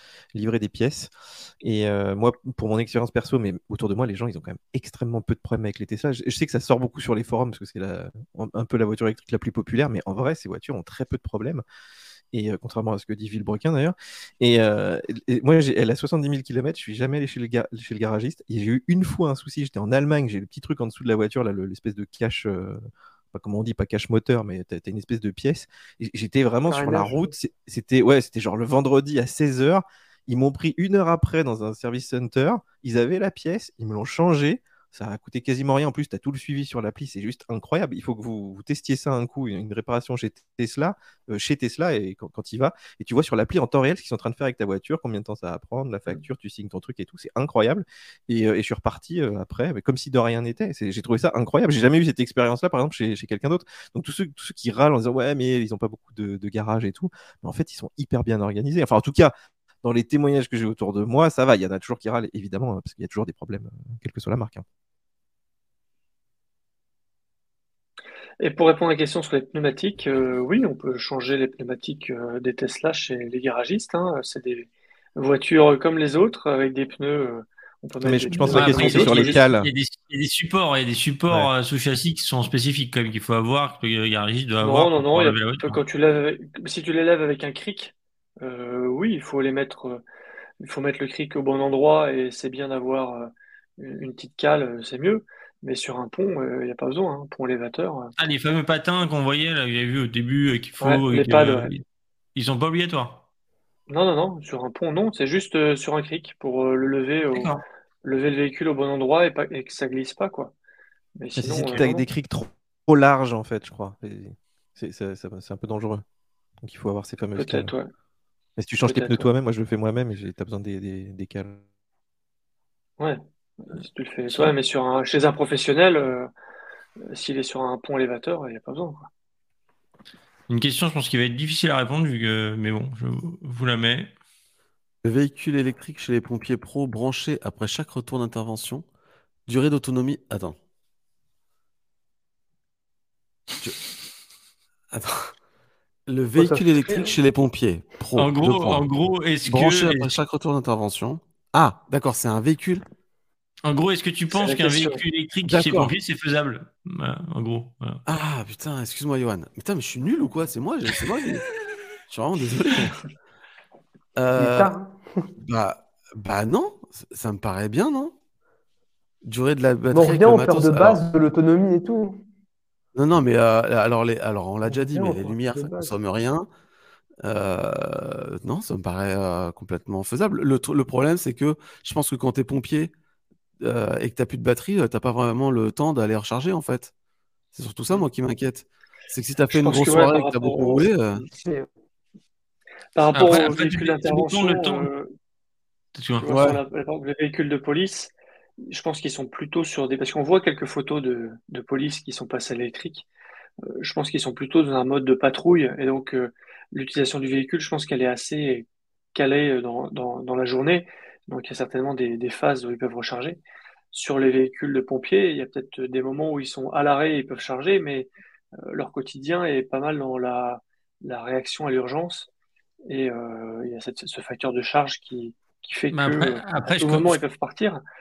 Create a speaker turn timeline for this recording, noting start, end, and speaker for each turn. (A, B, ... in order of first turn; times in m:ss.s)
0:00.3-0:11.6 A
0:12.3-1:04.6 A
0:26.7-0:27.2 B
1:08.4-1:19.4 C
1:18.0-1:19.7 A
1:18.5-1:25.8 D
1:24.6-1:30.0 C
1:30.6-1:38.1 C
1:38.2-1:41.8 D
1:40.8-1:41.7 C
1:42.4-1:43.2 D
1:43.9-1:50.5 C
1:47.3-1:47.6 D
1:51.2-1:52.1 C
1:51.4-1:56.0 A
1:56.6-1:57.7 A
1:57.4-1:57.9 C
1:58.6-2:01.6 A
1:58.8-1:59.3 C
2:03.0-2:06.3 C
2:07.1-2:09.1 C
2:10.5-2:14.1 D
2:15.0-2:18.8 E
2:19.5-2:20.6 E
2:24.9-2:25.3 E
2:26.1-2:28.9 E
2:26.4-2:27.2 B
2:28.2-2:30.1 D
2:29.4-2:32.8 E
2:33.6-2:38.0 D
2:34.3-2:35.0 C
2:35.4-2:35.9 E
2:38.1-2:41.5 E
2:42.1-2:43.0 E
2:44.2-2:44.8 E
2:44.4-2:45.3 B
2:45.4-2:48.1 E
2:49.2-2:51.0 E
2:49.9-2:52.2 B
2:53.0-2:56.5 E
2:54.7-2:55.9 B
2:57.2-3:02.9 E
3:03.6-3:06.9 E
3:07.5-3:11.3 E
3:09.5-3:10.9 C
3:11.2-3:11.7 B
3:13.0-3:15.1 C
3:13.2-3:14.9 D
3:16.0-3:16.3 D
3:16.2-3:18.2 C
3:16.3-3:16.6 E
3:18.7-3:23.1 C
3:23.8-3:33.4 C
3:33.9-3:38.1 C
3:38.7-3:42.3 C
3:42.9-3:47.8 C
3:45.9-3:47.2 D